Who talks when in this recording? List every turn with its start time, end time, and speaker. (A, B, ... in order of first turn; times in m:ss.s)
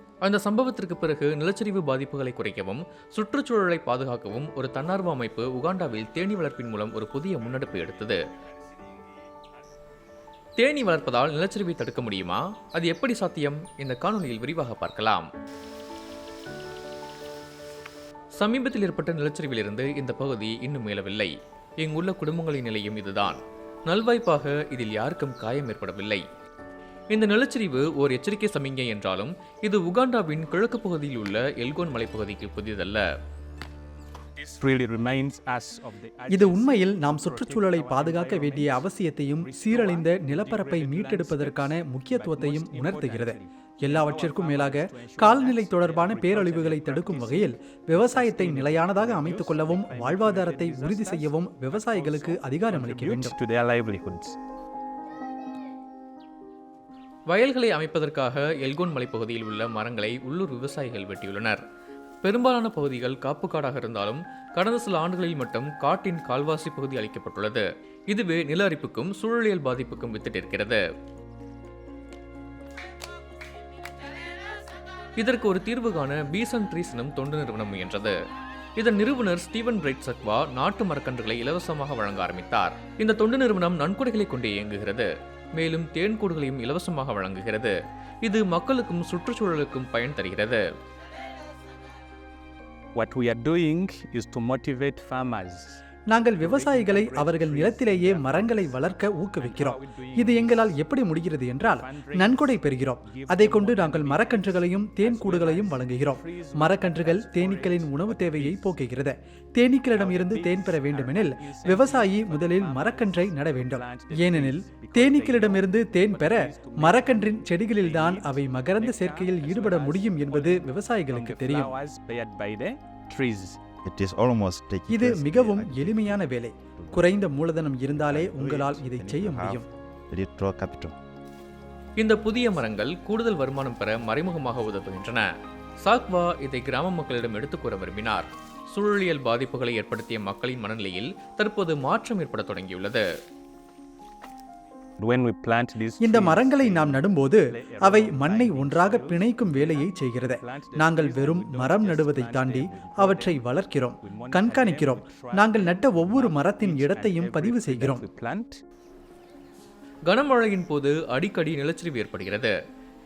0:00.2-0:08.2 A
0:10.6-0:15.3 A
0:18.4-0:26.2 A
0:27.1-0:33.0 A
0:34.4-0:54.4 B
0:36.3-0:53.4 C
0:57.3-1:01.6 A
1:02.2-1:10.8 A
1:15.2-1:18.1 A
1:18.8-1:30.6 A
1:32.9-1:35.8 B
1:36.1-2:01.7 C
1:36.4-1:40.8 B
1:41.6-1:48.7 B
1:49.9-2:03.6 B
2:03.8-2:07.1 D
2:04.9-2:09.6 C
2:07.9-2:11.0 D
2:12.0-2:15.2 A
2:15.8-2:23.0 A
2:25.0-2:33.4 B
2:26.0-2:38.0 C
2:34.0-2:38.6 B
2:40.1-2:42.5 A